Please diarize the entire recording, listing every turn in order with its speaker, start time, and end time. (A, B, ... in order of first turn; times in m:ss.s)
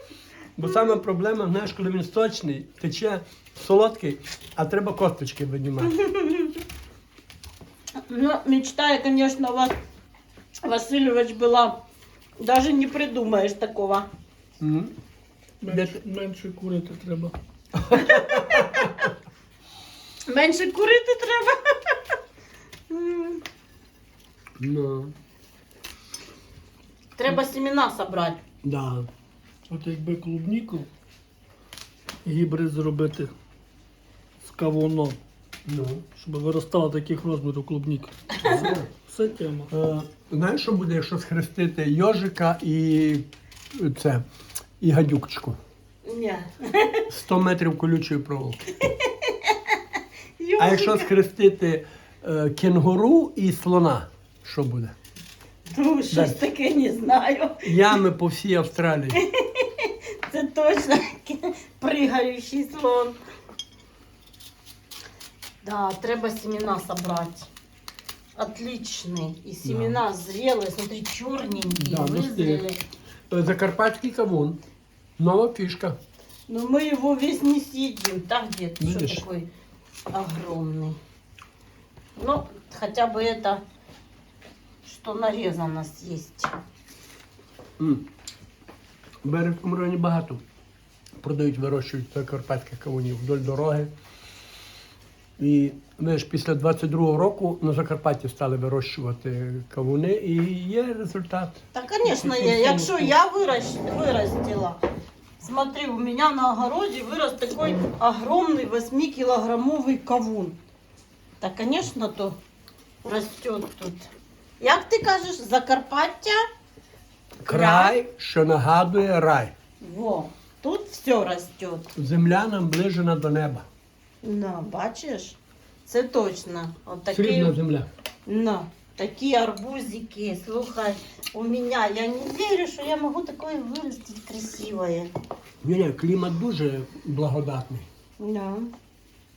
0:00.6-0:06.0 A
0:05.9-0:06.5 B
0:08.1-0:09.7 B
0:10.6-0:11.8 B
0:12.4-0:14.1 B
0:14.6-0:14.9 A
0:15.6-0:17.3 C
0:15.7-0:16.0 A
0:17.8-0:19.1 A
0:17.9-0:18.9 B
0:20.3-0:22.0 B
0:22.9-0:23.4 B
0:24.6-0:25.1 A
0:27.2-0:28.4 B
0:28.6-0:29.1 A
0:29.7-0:30.9 C
0:32.2-0:33.3 C
0:34.4-0:35.2 C
0:35.6-0:36.1 A
0:36.2-0:39.7 C
0:38.4-0:38.9 A
0:39.7-0:44.2 A
0:44.8-0:45.6 A
0:46.0-0:47.0 B
0:47.1-0:48.6 A
0:48.8-0:49.8 B
0:50.4-0:51.1 B
0:50.6-0:54.9 A
0:55.7-0:58.0 B
0:56.1-0:56.4 A
0:57.6-0:59.2 A
0:59.2-1:03.2 B
1:05.6-1:07.5 B
1:08.4-1:12.8 B
1:09.6-1:10.0 A
1:11.7-1:12.6 A
1:13.3-1:14.6 A
1:15.2-1:16.0 A
1:16.5-1:19.5 B
1:18.8-1:19.2 A
1:20.1-1:21.0 B
1:22.2-1:23.6 B
1:24.8-1:26.6 B
1:27.8-1:28.0 A
1:29.2-1:30.4 A
1:31.2-1:33.9 A
1:35.4-1:41.6 A
1:41.7-1:44.8 B
1:42.0-1:43.1 C
1:45.4-1:50.6 B
1:51.4-1:52.4 B
1:53.0-1:54.1 B
1:54.6-1:56.4 B
1:57.4-1:59.5 A
1:57.4-1:57.9 B
1:59.8-2:01.9 B
2:02.0-2:03.6 A
2:04.2-2:07.5 B
2:07.1-2:07.9 A
2:08.2-2:15.1 B
2:15.6-2:17.9 A
2:18.2-2:18.7 B